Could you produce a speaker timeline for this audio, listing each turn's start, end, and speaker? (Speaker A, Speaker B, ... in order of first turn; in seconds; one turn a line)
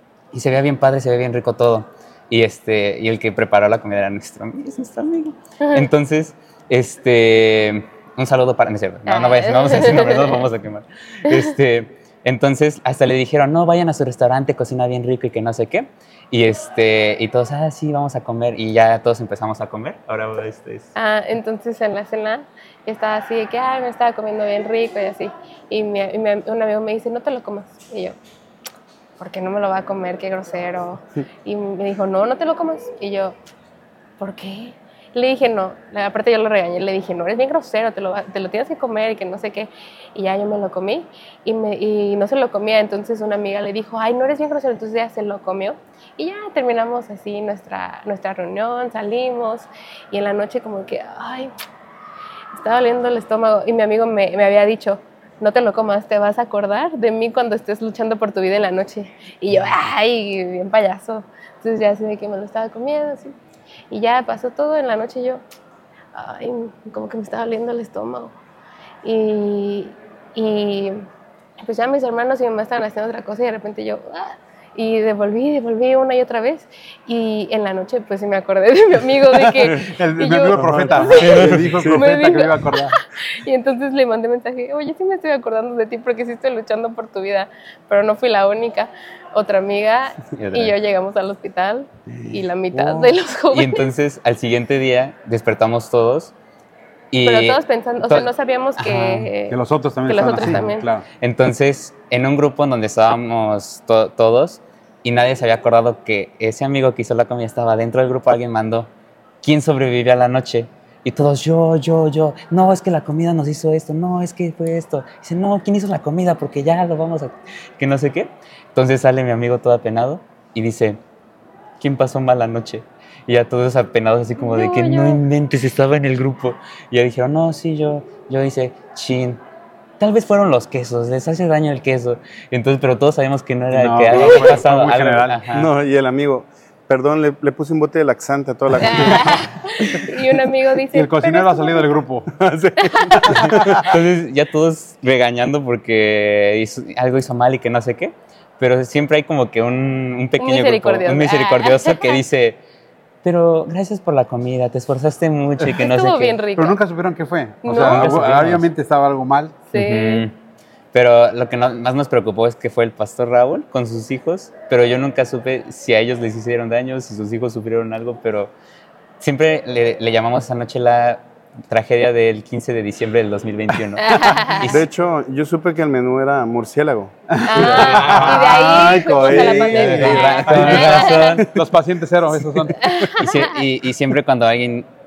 Speaker A: 0.3-20.9
Speaker B: 5.6-5.9
Speaker B: 9.1-10.4
Speaker B: 20.9-28.1
Speaker B: 29.2-33.4
Speaker B: 34.2-51.5
Speaker B: 52.5-63.3
Speaker B: 63.9-65.4
Speaker B: 66.1-68.4
Speaker B: 69.0-71.0
Speaker B: 71.6-93.9
Speaker C: 79.7-83.0
Speaker D: 80.5-82.0
Speaker A: 90.3-90.8
Speaker A: 93.5-96.3
Speaker A: 97.1-99.3
Speaker B: 97.2-100.9
Speaker C: 99.5-101.0
Speaker A: 100.4-100.7
Speaker A: 101.2-108.9
Speaker A: 109.4-121.0
Speaker A: 121.8-129.4
Speaker B: 124.5-125.2
Speaker A: 130.0-135.7
Speaker C: 133.7-135.4
Speaker D: 134.1-134.7
Speaker D: 135.5-139.4
Speaker B: 138.9-141.9
Speaker C: 139.0-139.4
Speaker C: 140.9-143.9
Speaker B: 142.9-143.1
Speaker A: 143.8-152.6
Speaker B: 150.4-152.2
Speaker A: 153.2-156.4
Speaker B: 155.6-156.8
Speaker C: 156.6-159.6
Speaker B: 157.6-158.1
Speaker A: 157.9-158.6
Speaker D: 158.0-158.5
Speaker B: 159.7-160.2
Speaker A: 159.7-160.3
Speaker A: 160.9-168.5
Speaker A: 169.2-174.7
Speaker B: 174.0-174.7
Speaker D: 174.6-181.4
Speaker C: 177.3-183.1
Speaker B: 177.5-181.3
Speaker A: 177.8-178.8
Speaker A: 179.8-181.4
Speaker B: 182.8-183.5
Speaker A: 183.2-184.9